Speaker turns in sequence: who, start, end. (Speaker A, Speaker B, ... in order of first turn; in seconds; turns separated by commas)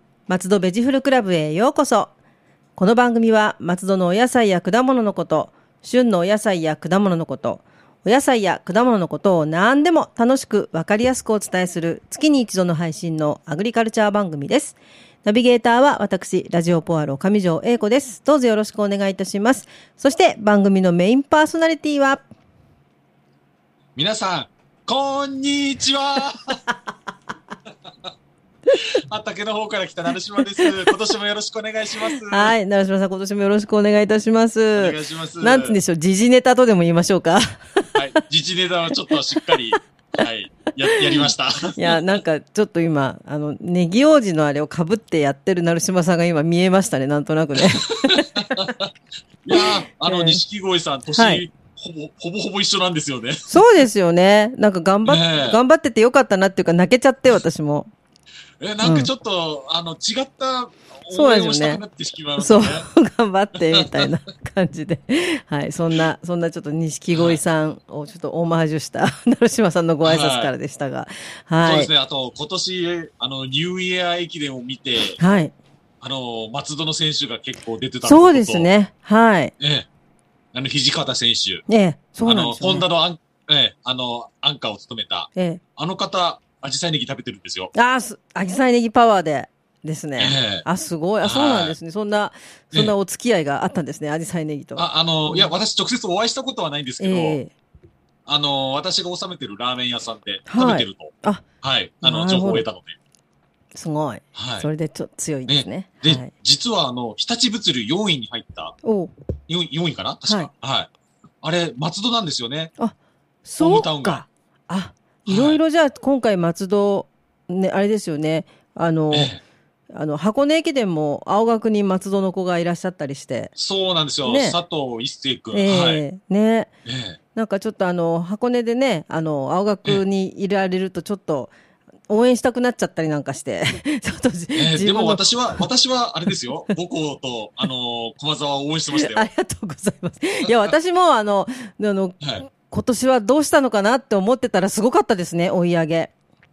Speaker A: 0.3-2.1, Speaker A: 2.8-22.2, Speaker B: 23.9-26.6, Speaker B: 28.7-32.5, Speaker A: 32.2-38.0, Speaker B: 34.8-35.8, Speaker B: 38.0-42.2, Speaker A: 40.9-48.7, Speaker B: 47.8-48.9, Speaker B: 49.4-53.5, Speaker A: 49.5-50.4, Speaker A: 51.1-51.4, Speaker A: 53.5-57.9, Speaker B: 55.0-55.6, Speaker B: 58.6-62.9, Speaker A: 58.8-59.1, Speaker A: 61.1-61.8, Speaker A: 62.4-71.9, Speaker B: 63.6-64.1, Speaker B: 67.1-67.4, Speaker B: 70.0-70.5, Speaker B: 71.6-75.2, Speaker A: 75.2-75.5, Speaker B: 76.0-78.7, Speaker A: 78.0-79.5, Speaker B: 79.6-79.9, Speaker B: 80.5-81.6, Speaker A: 81.7-82.9, Speaker B: 82.2-87.7, Speaker A: 85.4-85.6, Speaker A: 87.8-95.5, Speaker B: 90.2-90.7, Speaker B: 91.2-91.8, Speaker B: 94.8-97.4, Speaker A: 97.0-97.5, Speaker B: 98.3-103.0, Speaker A: 100.5-101.4, Speaker A: 102.0-102.7, Speaker A: 103.8-106.3, Speaker B: 104.3-104.7, Speaker B: 105.5-108.8, Speaker A: 108.8-109.1, Speaker B: 109.5-110.9, Speaker B: 111.4-112.7, Speaker A: 112.8-119.3, Speaker B: 113.6-114.2, Speaker B: 115.3-115.6, Speaker B: 119.1-119.4, Speaker A: 119.9-123.5, Speaker B: 123.6-126.0, Speaker A: 124.2-124.6, Speaker A: 125.5-126.7, Speaker B: 126.8-127.2, Speaker A: 127.3-131.5, Speaker A: 132.1-135.7, Speaker B: 134.6-139.3, Speaker A: 138.9-146.1